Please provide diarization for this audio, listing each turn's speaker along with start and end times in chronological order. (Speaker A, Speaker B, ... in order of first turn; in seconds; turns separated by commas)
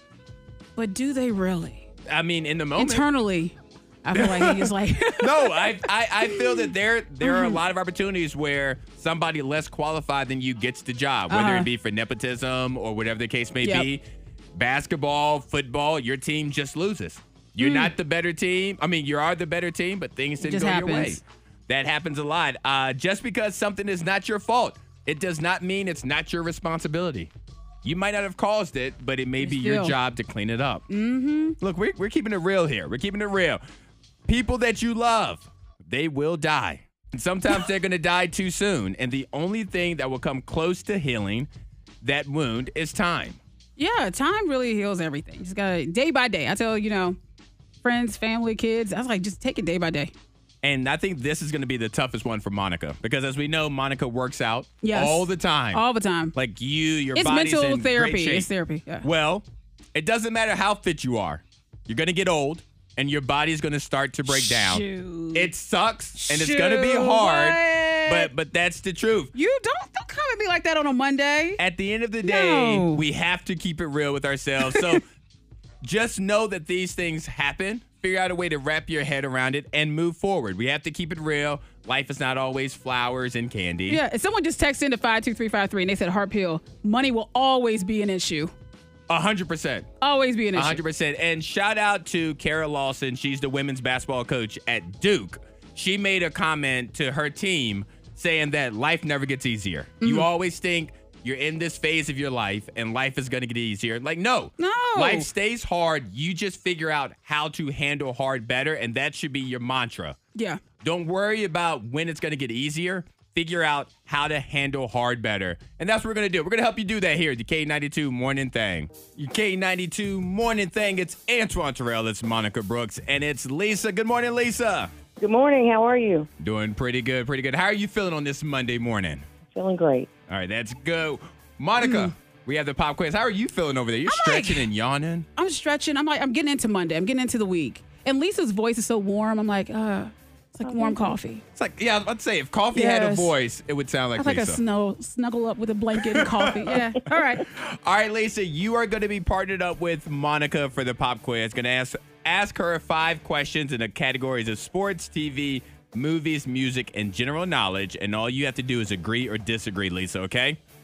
Speaker A: 0.8-1.9, Speaker B: 2.0-3.0, Speaker A: 2.8-6.7, Speaker B: 4.1-27.3, Speaker A: 7.2-7.6, Speaker A: 11.3-11.7, Speaker A: 13.6-13.9, Speaker A: 17.6-17.9, Speaker A: 20.4-21.2, Speaker B: 27.8-30.9, Speaker A: 29.4-29.9, Speaker A: 30.9-31.6, Speaker B: 31.6-33.6, Speaker B: 34.2-41.5, Speaker B: 42.0-43.4, Speaker A: 43.8-47.2, Speaker A: 47.8-50.1, Speaker B: 50.6-55.8, Speaker A: 54.8-56.3, Speaker B: 56.3-58.5, Speaker A: 57.1-59.1, Speaker B: 59.0-69.3, Speaker A: 64.3-65.5, Speaker A: 66.1-68.3, Speaker A: 69.3-71.6, Speaker B: 71.6-75.0, Speaker A: 72.2-73.0, Speaker A: 74.7-75.0, Speaker B: 75.8-84.0, Speaker A: 83.9-88.5, Speaker B: 89.1-89.9, Speaker A: 90.0-90.8, Speaker B: 90.5-110.2, Speaker A: 100.0-100.3, Speaker A: 104.6-105.3, Speaker B: 110.8-124.9, Speaker C: 125.2-126.3, Speaker B: 126.4-129.3, Speaker C: 129.5-130.1, Speaker B: 130.3-135.3, Speaker A: 131.8-132.1, Speaker A: 134.1-134.7, Speaker A: 135.4-141.4, Speaker C: 140.6-141.2, Speaker B: 141.5-144.6, Speaker A: 142.7-143.3, Speaker A: 144.2-147.4, Speaker B: 146.0-146.8, Speaker B: 147.4-160.6